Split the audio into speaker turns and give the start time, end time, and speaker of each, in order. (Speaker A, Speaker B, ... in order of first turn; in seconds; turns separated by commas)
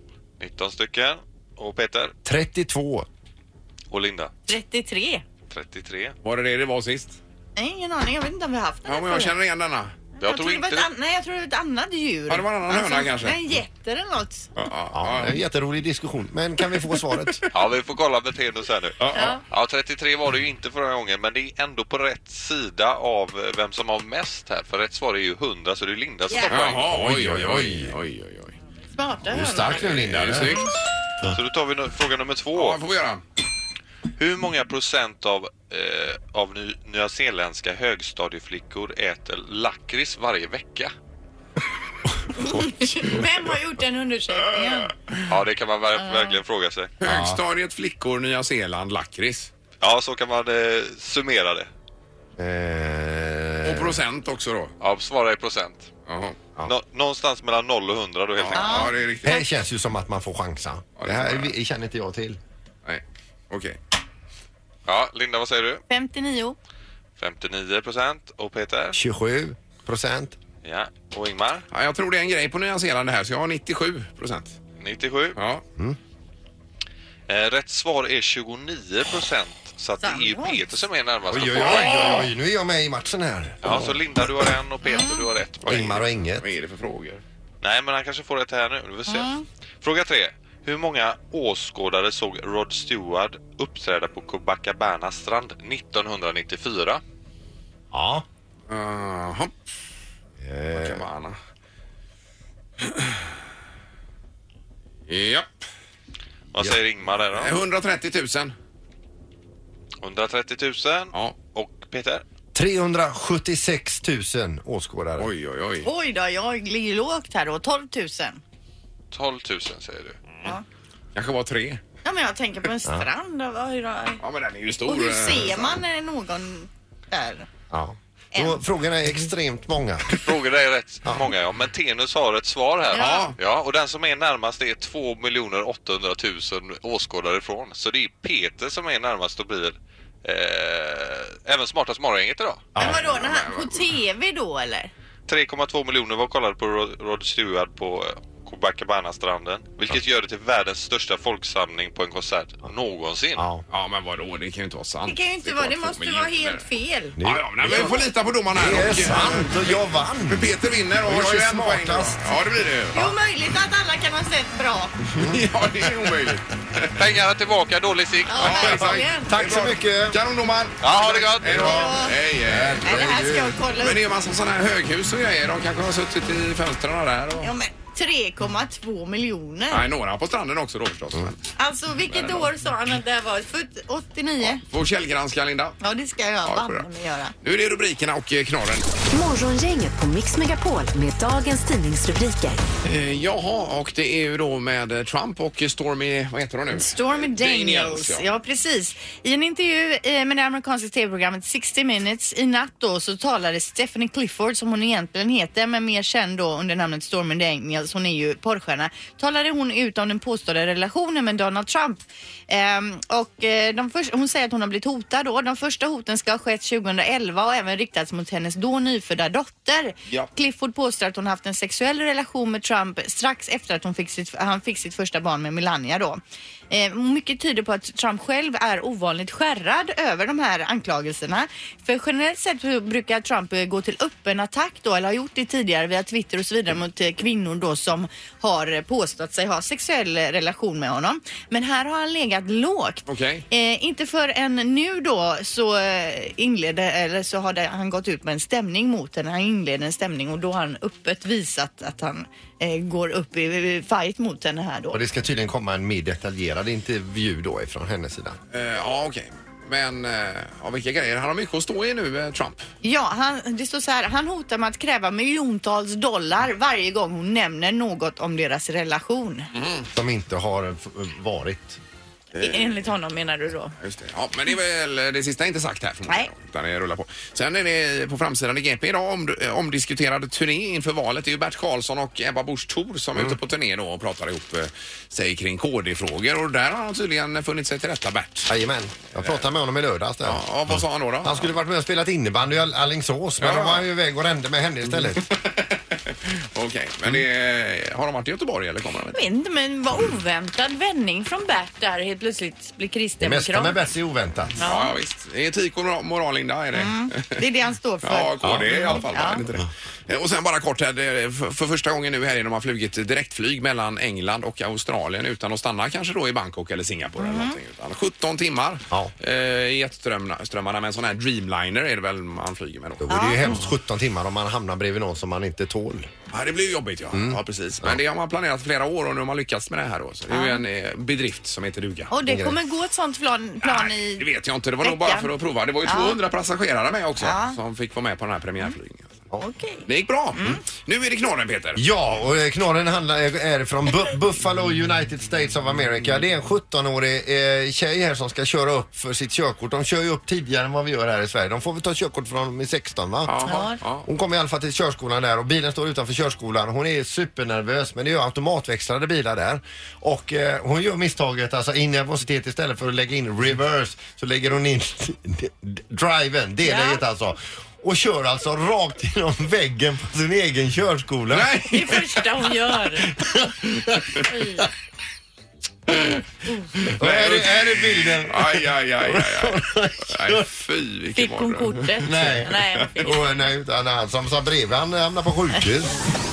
Speaker A: 0.4-2.1, Speaker B: 2.2-3.1, Speaker A: 3.9-4.3, Speaker C: 4.5-5.2, Speaker A: 5.5-6.2, Speaker D: 6.2-7.2, Speaker C: 7.6-9.3, Speaker D: 8.9-9.9, Speaker C: 10.2-14.5, Speaker A: 10.2-10.9, Speaker D: 12.3-13.4, Speaker D: 14.6-15.4, Speaker B: 14.9-17.4, Speaker A: 17.5-26.9, Speaker D: 19.0-19.4, Speaker C: 19.1-19.4, Speaker C: 26.3-26.6, Speaker D: 26.5-28.6, Speaker B: 26.7-27.9, Speaker C: 29.0-29.9, Speaker B: 29.3-30.6, Speaker D: 29.7-30.8, Speaker A: 31.3-32.8, Speaker D: 32.5-33.2, Speaker A: 34.2-40.9, Speaker C: 42.3-44.9, Speaker A: 45.3-46.9, Speaker C: 46.0-46.4, Speaker D: 47.0-49.5, Speaker B: 47.0-47.4, Speaker A: 49.8-51.7, Speaker B: 52.4-54.0, Speaker D: 53.6-54.7, Speaker A: 54.8-55.9, Speaker D: 56.1-56.5, Speaker A: 56.6-58.9, Speaker D: 58.4-59.3, Speaker C: 58.5-59.4, Speaker B: 59.2-62.4, Speaker D: 61.0-61.5, Speaker D: 62.9-63.8, Speaker A: 64.9-65.8, Speaker C: 65.9-66.6, Speaker A: 67.2-69.0, Speaker B: 68.9-70.4, Speaker A: 70.6-71.7, Speaker D: 71.7-74.6, Speaker A: 74.8-75.4, Speaker D: 75.4-75.6, Speaker A: 77.3-82.1, Speaker C: 80.0-80.7, Speaker B: 81.3-84.5, Speaker D: 81.5-82.3, Speaker A: 83.6-86.0, Speaker C: 84.8-85.3, Speaker B: 85.7-86.5, Speaker D: 85.7-87.2, Speaker A: 87.6-97.0, Speaker C: 89.1-89.5, Speaker B: 97.9-98.2, Speaker D: 98.7-99.5, Speaker B: 100.4-101.0, Speaker D: 100.7-101.4, Speaker D: 102.8-103.3, Speaker D: 105.1-105.6, Speaker A: 106.5-107.6, Speaker D: 107.3-108.5, Speaker A: 110.0-112.2, Speaker B: 112.5-115.3, Speaker D: 115.2-115.9, Speaker C: 115.8-118.4, Speaker A: 119.1-120.2, Speaker D: 121.2-121.8, Speaker C: 122.0-124.2, Speaker D: 124.2-125.8, Speaker C: 124.9-127.5, Speaker B: 127.7-130.2, Speaker C: 128.3-128.6, Speaker A: 130.2-142.7, Speaker B: 131.0-131.3, Speaker C: 132.9-133.3, Speaker D: 132.9-133.4, Speaker B: 142.8-143.1, Speaker D: 142.8-143.9, Speaker C: 142.8-144.9, Speaker A: 145.3-153.5, Speaker B: 153.4-153.6, Speaker D: 153.7-156.7, Speaker C: 155.1-157.2, Speaker B: 157.2-162.2, Speaker D: 157.2-163.1, Speaker C: 162.9-164.9, Speaker B: 165.2-165.5, Speaker D: 165.2-167.1, Speaker A: 167.0-168.8, Speaker C: 168.3-169.3, Speaker D: 168.4-173.1, Speaker B: 168.6-170.2, Speaker A: 170.8-171.7, Speaker B: 170.9-173.6, Speaker C: 171.5-172.2, Speaker C: 172.8-174.0, Speaker D: 173.7-177.5, Speaker C: 177.4-179.8, Speaker D: 179.7-181.4, Speaker C: 181.6-184.6, Speaker D: 182.1-182.5, Speaker D: 184.5-185.8, Speaker C: 185.8-187.3, Speaker D: 186.4-186.9, Speaker D: 187.4-188.9, Speaker E: 189.1-192.6, Speaker D: 192.8-198.3, Speaker C: 196.7-255.0, Speaker D: 243.1-243.4, Speaker B: 254.9-258.4, Speaker D: 258.5-262.7, Speaker C: 262.8-269.5, Speaker D: 269.5-269.9, Speaker B: 269.9-271.8, Speaker D: 272.4-272.8, Speaker C: 272.4-273.7, Speaker D: 273.8-288.5, Speaker B: 288.5-295.2, Speaker D: 289.1-289.4, Speaker D: 290.2-291.5, Speaker D: 293.4-293.9, Speaker D: 295.1-299.2, Speaker C: 299.1-303.8, Speaker B: 303.2-304.6, Speaker C: 304.6-304.9, Speaker D: 304.6-307.4, Speaker C: 306.7-309.4, Speaker D: 308.0-323.5, Speaker B: 308.4-308.7, Speaker C: 317.2-317.6, Speaker B: 323.0-326.1, Speaker C: 323.1-323.6, Speaker D: 326.3-332.1, Speaker B: 327.1-328.0, Speaker C: 330.3-330.6, Speaker C: 332.1-334.2, Speaker B: 332.2-332.6, Speaker D: 333.6-339.1, Speaker C: 334.8-335.3, Speaker C: 335.9-336.2, Speaker C: 337.2-337.6, Speaker C: 339.3-340.6, Speaker D: 339.9-341.8, Speaker B: 341.8-353.4, Speaker D: 353.2-354.1, Speaker C: 353.4-353.8, Speaker B: 354.0-371.9, Speaker C: 366.6-367.0, Speaker D: 371.3-372.2, Speaker C: 371.7-373.1, Speaker B: 373.2-374.3, Speaker D: 373.7-374.2, Speaker C: 374.3-374.7, Speaker D: 375.9-376.2, Speaker D: 376.8-382.2, Speaker B: 377.0-380.5, Speaker C: 381.1-383.2, Speaker B: 382.0-386.0